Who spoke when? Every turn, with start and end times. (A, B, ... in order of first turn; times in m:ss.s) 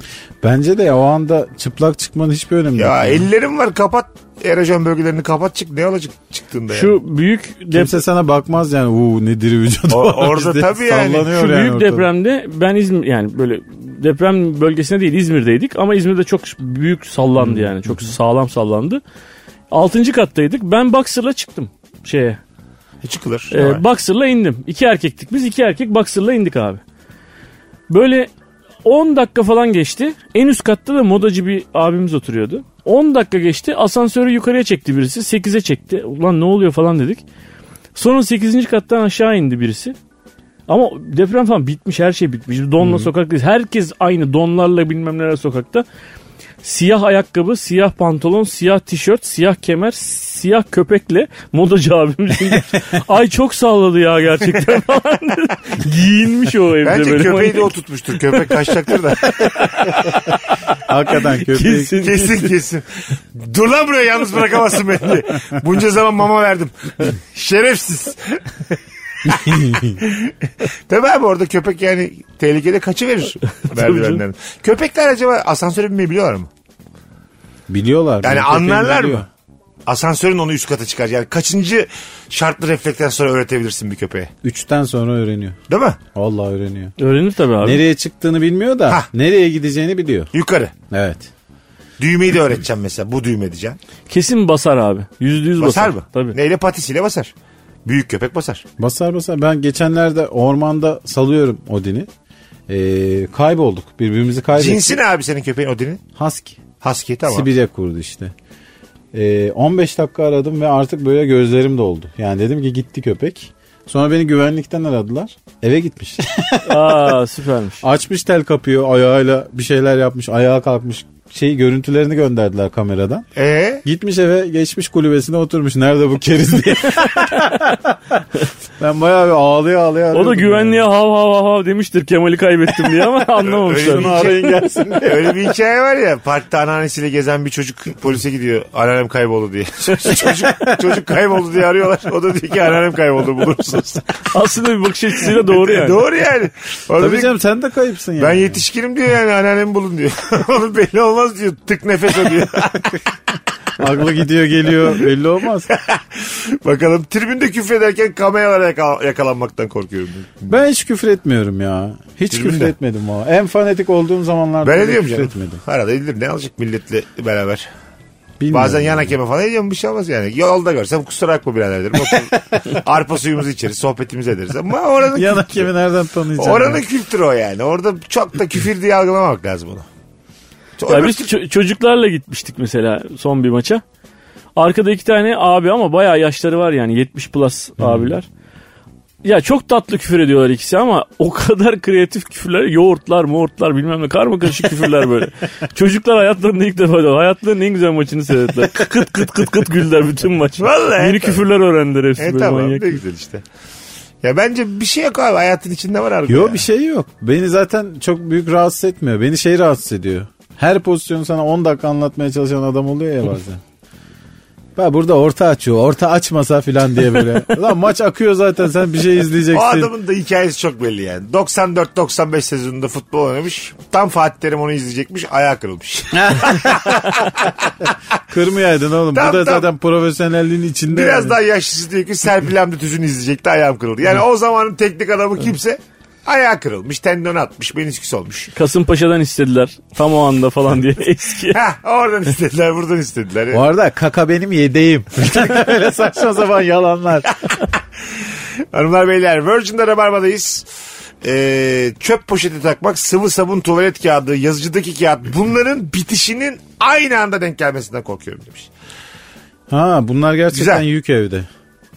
0:00.4-0:03.3 A
0:02.8-0:07.0 B
0:06.7-0:08.0 C
0:07.7-0:12.1 A
0:09.9-0:11.3 B
0:11.3-0:19.0 C
0:17.4-0:18.2 A
0:19.7-0:22.4 C
0:23.0-0:23.8 B
0:23.5-0:26.8 C
0:27.9-0:28.3 C
0:28.8-0:37.2 C
0:38.0-0:40.0 C
0:40.7-0:45.9 C
0:42.8-0:43.1 A
0:46.6-0:57.7 C
0:56.8-1:00.1 B
0:59.3-1:00.8 C
1:00.8-1:02.0 A
1:01.4-1:02.5 C
1:02.0-1:16.5 B
1:09.2-1:10.0 A
1:13.7-1:14.2 C
1:17.7-1:19.3 A
1:18.2-1:19.3 B
1:19.9-1:24.3 B
1:24.4-1:25.6 A
1:25.7-1:26.0 B
1:26.2-1:27.0 A
1:27.0-1:27.8 C
1:27.6-1:30.3 A
1:30.3-1:30.7 B
1:30.9-1:31.3 A
1:32.0-1:33.8 B
1:34.1-1:36.4 C
1:35.6-1:37.3 B
1:37.8-1:38.6 B
1:38.8-1:42.1 A
1:42.7-1:45.0 A
1:44.6-1:46.0 B
1:46.2-1:46.6 A
1:46.8-1:47.5 B
1:47.3-1:48.3 A
1:49.1-1:57.2 A
1:56.6-1:57.8 C
1:57.8-2:03.2 A
2:03.4-2:03.8 B
2:03.8-2:08.2 A
2:08.8-2:10.9 A
2:10.1-2:14.3 C
2:13.4-2:14.4 B
2:13.9-2:15.4 A
2:15.0-2:24.2 B
2:20.2-2:20.5 A
2:24.3-2:26.0 C
2:25.3-2:27.4 B
2:27.0-2:28.6 A
2:28.2-2:33.1 B
2:33.8-2:35.7 A
2:35.7-2:40.6 B
2:40.5-2:45.6 A
2:42.3-2:42.7 B
2:44.6-2:47.7 B
2:48.4-2:49.1 A
2:48.5-2:55.7 B
2:55.1-2:56.8 A
2:56.4-2:59.9 B
3:00.8-3:01.3 B
3:00.9-3:03.8 C
3:04.6-3:08.3 C
3:07.8-3:08.2 A
3:09.2-3:23.0 C
3:20.6-3:21.4 B
3:22.2-3:23.4 B
3:24.2-3:26.6 B
3:26.3-3:33.6 A
3:34.8-3:39.9 A
3:39.5-3:47.9 B
3:46.1-3:47.2 A
3:48.3-3:51.4 A
3:49.1-3:49.7 B
3:50.9-3:58.5 B
3:58.6-4:01.6 C
4:01.5-4:03.6 B
4:03.5-4:07.3 A
4:08.7-4:10.7 B
4:11.2-4:18.7 B
4:19.7-4:21.5 A
4:20.5-4:20.8 B